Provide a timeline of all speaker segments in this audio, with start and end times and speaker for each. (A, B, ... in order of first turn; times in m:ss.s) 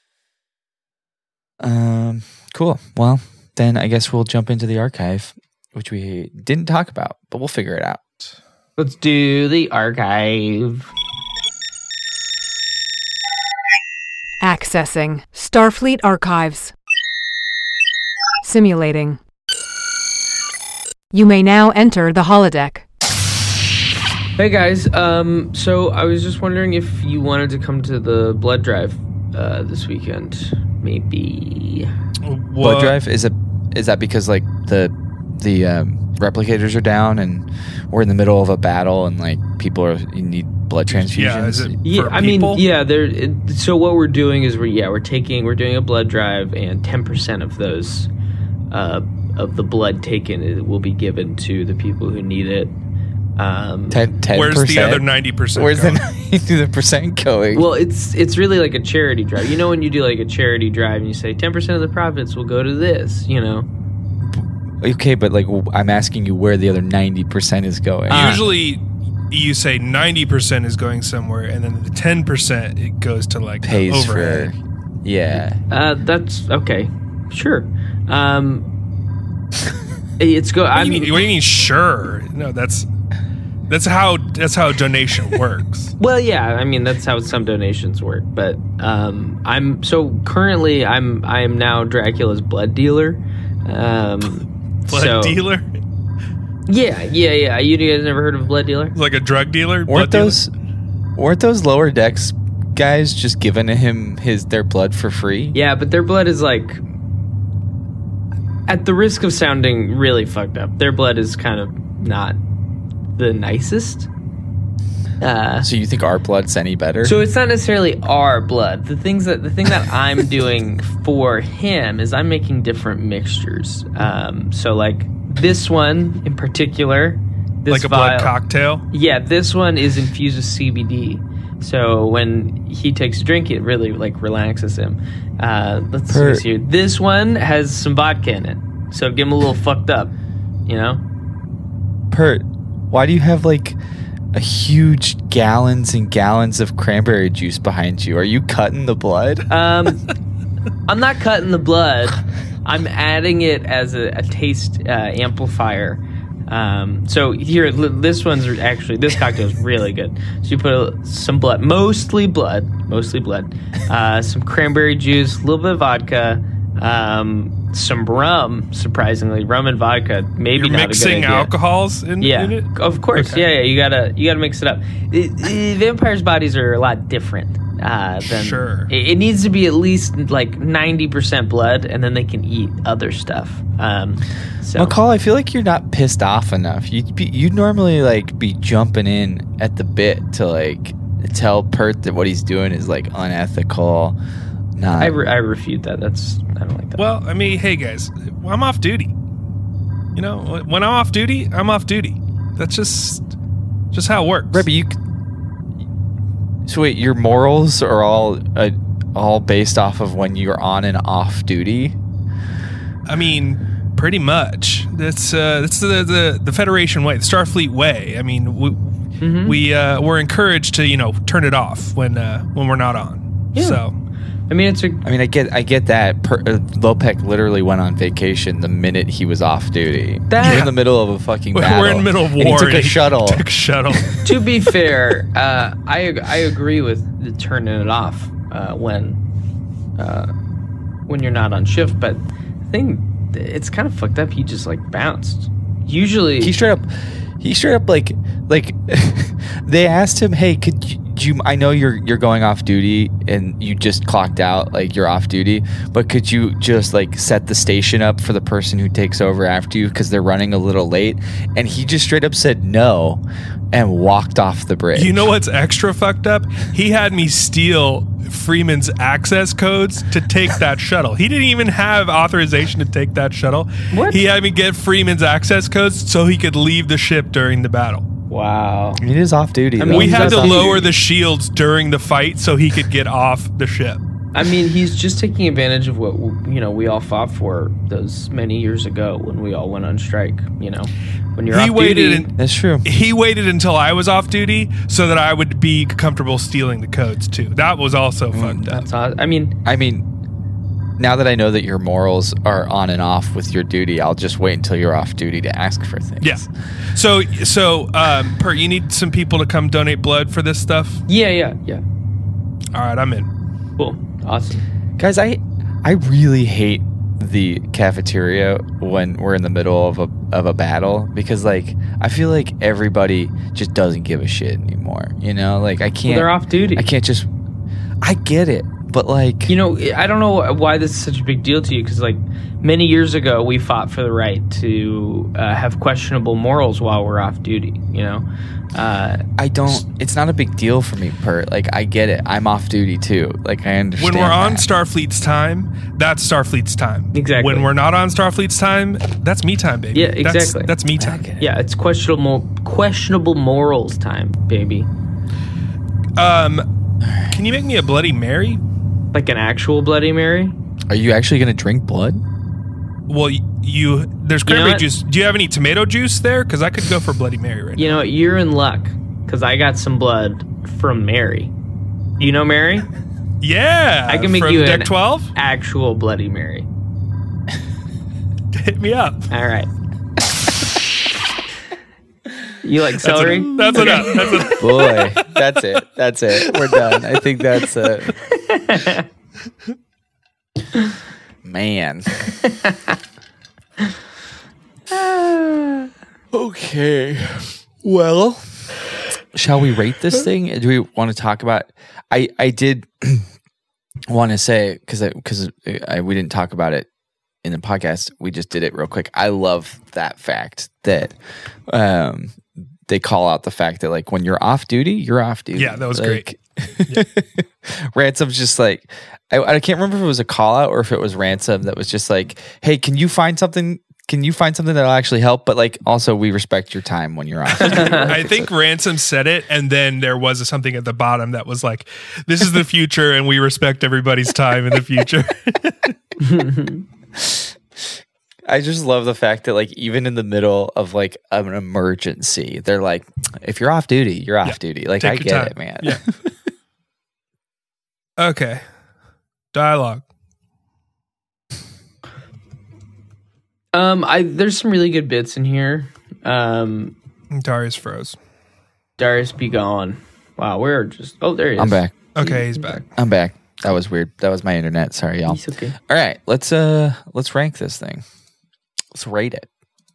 0:01.6-0:08.0 A
0:08.8-0:10.9 B
0:14.4-0:16.7 C
0:18.4-0:19.2 C
0:21.1-0:22.8 C
0:24.4-0:31.9 B
0:32.2-0:33.0 D
0:32.6-0:41.8 A
0:40.9-0:42.6 D
0:41.8-0:48.1 B
0:48.7-0:52.7 B
0:53.4-0:54.1 B
0:53.9-0:57.7 A
0:54.3-0:56.0 D
0:57.5-1:03.7 B
1:04.2-1:08.4 A
1:08.1-1:14.5 D
1:13.6-1:15.6 A
1:15.7-1:18.7 B
1:20.2-1:21.1 B
1:20.8-1:22.9 D
1:23.7-1:25.9 D
1:26.0-1:35.4 B
1:34.9-1:35.8 D
1:36.7-1:39.0 B
1:39.0-1:40.4 D
1:39.9-1:40.5 A
1:41.2-1:45.6 A
1:45.5-1:46.8 B
1:48.7-1:52.4 B
1:53.2-1:54.1 B
1:55.2-1:55.7 B
1:55.6-1:57.2 A
1:57.0-2:08.3 B
2:07.7-2:08.8 D
2:08.9-2:20.1 B
2:16.1-2:16.4 A
2:20.6-2:21.0 B
2:22.1-2:23.8 A
2:24.3-2:29.5 A
2:29.5-2:30.0 B
2:30.9-2:51.5 B
2:50.5-2:53.5 D
2:52.2-3:05.0 B
2:58.2-2:58.9 D
3:04.8-3:14.2 A
3:14.8-3:15.2 A
3:15.0-3:17.0 B
3:17.0-3:19.1 D
3:20.2-3:23.2 D
3:23.9-3:24.6 D
3:24.5-3:25.0 A
3:26.6-3:32.0 A
3:33.0-3:43.9 D
3:39.2-3:39.6 B
3:43.5-3:43.8 B
3:44.5-3:45.0 B
3:45.0-3:53.4 A
3:50.3-3:50.7 B
3:50.4-3:50.7 D
3:51.5-3:54.3 D
3:54.2-3:59.2 B
4:00.0-4:00.3 B
4:01.1-4:06.5 B
4:06.4-4:25.3 A
4:24.9-4:38.0 D
4:33.9-4:34.2 B
4:38.3-4:39.0 B
4:39.0-4:40.8 A
4:39.8-4:40.9 B
4:39.9-4:44.0 D
4:44.3-4:52.3 B
4:51.5-4:52.3 D
4:52.4-4:52.8 A
4:52.8-4:58.7 D
4:58.3-4:58.8 A
4:58.7-4:59.6 B
4:59.6-5:00.0 A
5:01.0-5:06.5 A
5:06.2-5:11.0 D
5:11.1-5:11.8 B
5:12.7-5:13.3 D
5:13.8-5:14.6 B
5:15.0-5:27.3 A
5:26.0-5:26.9 B
5:28.0-5:29.5 A
5:29.5-5:39.2 B
5:39.4-5:44.6 A
5:44.0-5:51.2 D
5:47.1-5:47.7 B
5:49.9-5:50.7 B
5:51.0-5:51.5 A
5:51.4-5:54.9 B
5:56.2-5:56.6 D
5:57.0-5:57.4 A
5:57.3-5:58.6 D
5:59.1-6:00.6 B
6:00.9-6:02.2 A
6:03.1-6:07.8 D
6:04.4-6:04.8 B
6:07.8-6:11.5 B
6:12.2-6:12.9 B
6:13.4-6:15.3 D
6:14.1-6:16.7 B
6:18.5-6:19.2 D
6:19.3-6:19.7 B
6:22.6-6:24.5 B
6:23.0-6:25.4 D
6:24.5-6:28.2 A
6:26.4-6:27.2 D
6:28.2-6:29.0 B
6:31.4-6:32.3 A
6:32.4-6:32.9 B
6:34.9-6:35.9 B
6:36.3-6:38.7 A
6:39.3-6:43.3 A
6:44.1-6:46.9 A
6:47.4-7:08.5 A
6:55.5-6:56.2 D
7:07.6-7:16.0 D
7:07.6-7:08.1 B
7:16.2-7:16.8 B
7:17.1-7:17.5 A
7:18.5-7:26.0 A
7:24.4-7:26.0 D
7:28.2-7:28.6 D
7:29.5-7:30.0 D
7:33.7-7:36.9 B
7:37.3-7:38.2 D
7:39.0-7:42.8 B
7:41.6-7:41.9 A
7:42.2-7:42.8 D
7:43.0-7:48.0 A
7:45.3-7:45.7 B
7:48.9-7:49.5 A